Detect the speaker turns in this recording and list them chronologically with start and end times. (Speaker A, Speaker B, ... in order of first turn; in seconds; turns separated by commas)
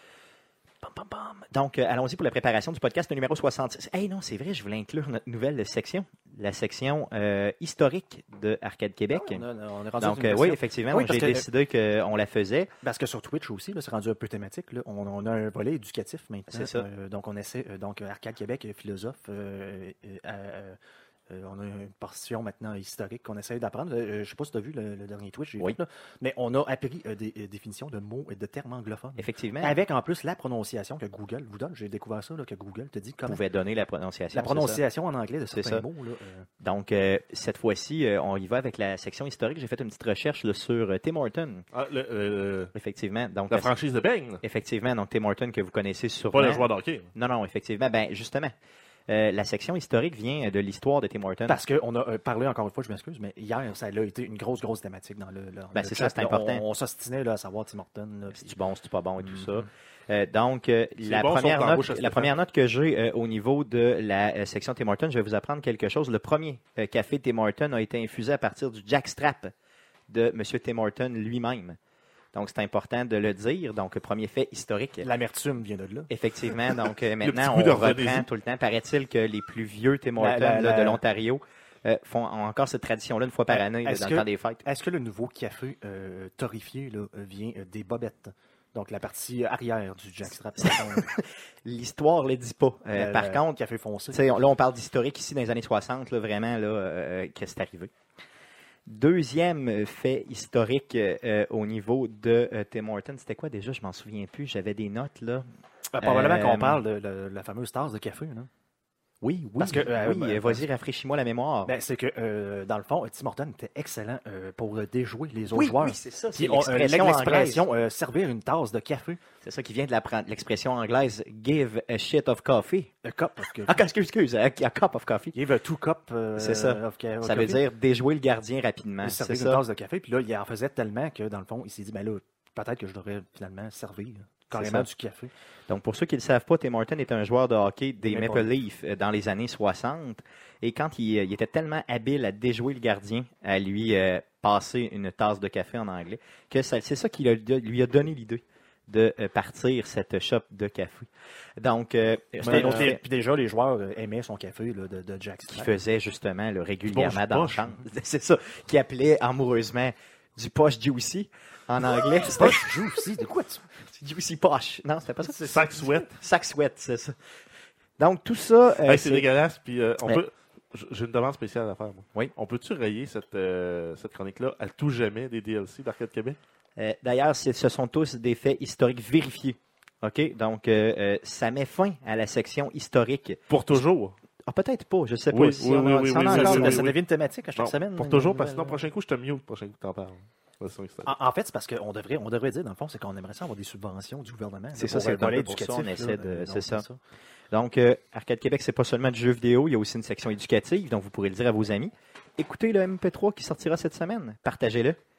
Speaker A: 0.8-1.4, Speaker B: 1.1-9.4, Speaker A: 9.1-11.4, Speaker B: 10.0-12.7, Speaker A: 12.8-20.8, Speaker B: 16.5-16.9, Speaker A: 21.3-33.4, Speaker B: 29.2-29.8, Speaker B: 33.2-34.8, Speaker A: 34.3-36.5, Speaker B: 35.5-35.8, Speaker B: 36.6-41.6, Speaker C: 41.7-42.7, Speaker B: 42.7-43.7, Speaker C: 43.5-44.4, Speaker B: 44.4-48.5, Speaker C: 46.3-47.1, Speaker B: 49.1-51.6, Speaker A: 51.5-58.5, Speaker B: 55.7-56.6, Speaker B: 58.3-69.5, Speaker A: 59.2-59.6, Speaker C: 61.0-62.3, Speaker B: 70.1-71.8, Speaker B: 72.3-75.1, Speaker A: 75.0-76.1, Speaker B: 76.1-84.6, Speaker C: 77.2-78.3, Speaker A: 80.2-81.0, Speaker A: 83.5-91.1, Speaker B: 90.6-93.5, Speaker A: 92.9-94.4, Speaker B: 94.1-97.9, Speaker B: 98.9-105.5, Speaker A: 105.9-108.5, Speaker B: 106.0-106.8, Speaker B: 109.2-111.7, Speaker A: 109.6-110.6, Speaker A: 111.6-119.2, Speaker B: 115.5-117.6, Speaker B: 119.4-122.9, Speaker A: 123.0-123.7, Speaker B: 123.7-125.3, Speaker A: 125.3-127.6, Speaker B: 126.4-129.6, Speaker A: 129.0-135.3, Speaker B: 134.5-134.9, Speaker B: 135.7-153.0, Speaker A: 138.0-138.5, Speaker A: 152.4-155.7, Speaker C: 152.4-152.9, Speaker B: 155.5-162.7, Speaker C: 156.8-157.7, Speaker A: 162.2-163.6, Speaker B: 163.9-165.6, Speaker A: 165.2-166.1, Speaker C: 165.5-166.1, Speaker B: 166.1-167.1, Speaker B: 168.0-169.2, Speaker C: 168.8-176.4, Speaker B: 176.8-183.8, Speaker C: 183.5-184.1, Speaker B: 184.4-186.8, Speaker C: 185.3-187.0, Speaker A: 186.0-188.8, Speaker C: 187.6-191.1, Speaker A: 191.0-197.0, Speaker B: 194.7-196.8, Speaker B: 197.5-205.0